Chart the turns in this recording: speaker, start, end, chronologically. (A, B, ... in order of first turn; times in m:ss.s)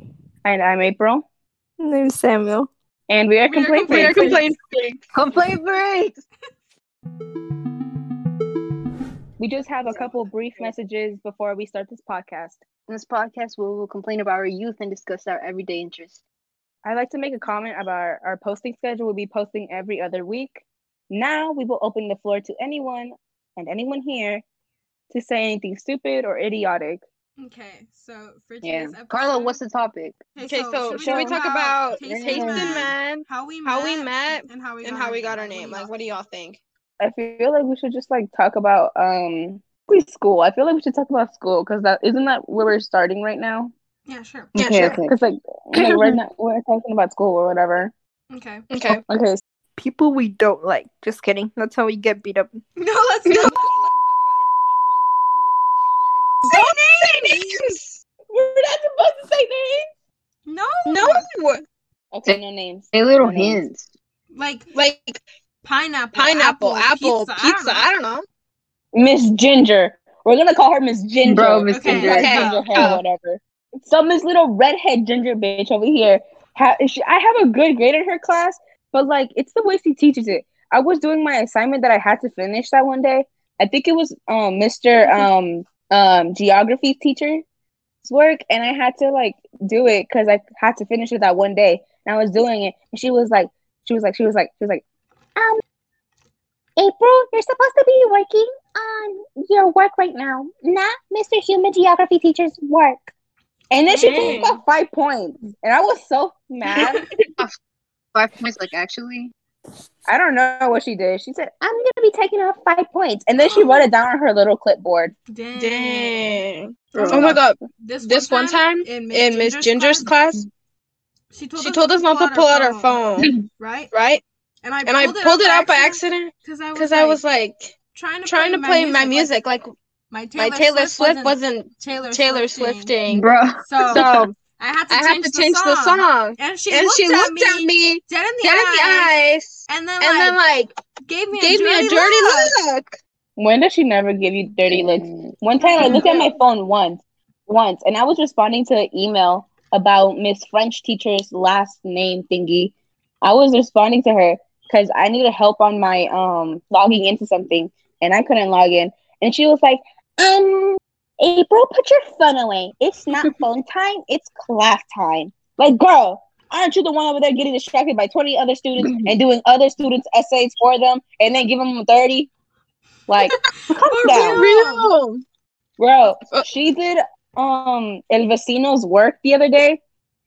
0:00.4-0:01.2 A
0:01.8-0:02.7 B
0:03.1-0:04.4 A
0:03.5-0:04.5 C
0:03.9-0:05.0 D
0:05.1-0:06.2 E
0:09.4-0:12.6 A
0:12.9-0:16.2 E
0:16.8-0:24.4 A
0:25.1-0:27.0 A
0:27.4-0:29.6 C
0:28.6-0:30.2 E
0:30.4-0:36.2 C
0:30.4-0:36.6 D
0:32.0-0:32.9 E
0:37.0-0:43.7 A
0:44.1-0:45.0 C
0:44.6-0:45.2 E
0:44.6-0:45.0 D
0:45.0-0:47.9 A
0:45.8-0:46.1 E
0:48.3-0:48.7 C
0:48.7-0:49.0 D
0:48.9-0:49.4 A
0:49.8-0:52.6 B
0:52.8-0:53.8 C
0:53.3-0:54.6 D
0:53.4-0:53.9 A
0:56.2-0:58.0 D
0:56.4-0:57.5 C
0:58.3-0:59.9 A
1:00.4-1:01.3 C
1:00.9-1:01.6 D
1:02.1-1:03.7 A
1:02.9-1:03.9 E
1:04.3-1:04.7 C
1:04.7-1:05.2 D
1:05.6-1:07.8 C
1:06.1-1:08.2 D
1:08.9-1:27.4 A
1:11.2-1:12.6 E
1:11.7-1:12.9 C
1:12.1-1:13.0 D
1:28.0-1:34.8 A
1:35.4-1:35.6 A
1:36.8-1:43.0 A
1:43.7-1:47.1 A
1:43.9-1:44.5 C
1:44.0-1:44.6 D
1:46.8-1:47.1 C
1:48.1-1:49.3 E
1:50.1-1:55.1 A
1:53.4-1:53.9 C
1:55.3-1:56.4 C
1:55.6-2:00.4 D
1:57.0-1:57.4 E
1:57.0-2:00.1 C
1:57.0-1:57.2 B
2:01.3-2:03.9 C
2:01.6-2:03.3 D
2:03.9-2:04.2 D
2:04.6-2:07.2 C
2:04.8-2:07.8 D
2:07.9-2:09.6 C
2:08.2-2:09.7 D
2:10.1-2:13.0 C
2:10.4-2:13.3 D
2:13.1-2:14.3 E
2:13.6-2:19.1 C
2:13.9-2:14.2 D
2:14.9-2:20.8 D
2:19.7-2:20.4 C
2:21.0-2:22.6 C
2:21.3-2:23.0 D
2:23.4-2:52.3 A
2:24.7-2:25.3 E
2:25.6-2:26.1 C
2:25.8-2:26.3 D
2:53.1-2:54.4 A
2:53.3-2:54.9 C
2:54.2-2:55.2 D
2:55.8-2:59.8 A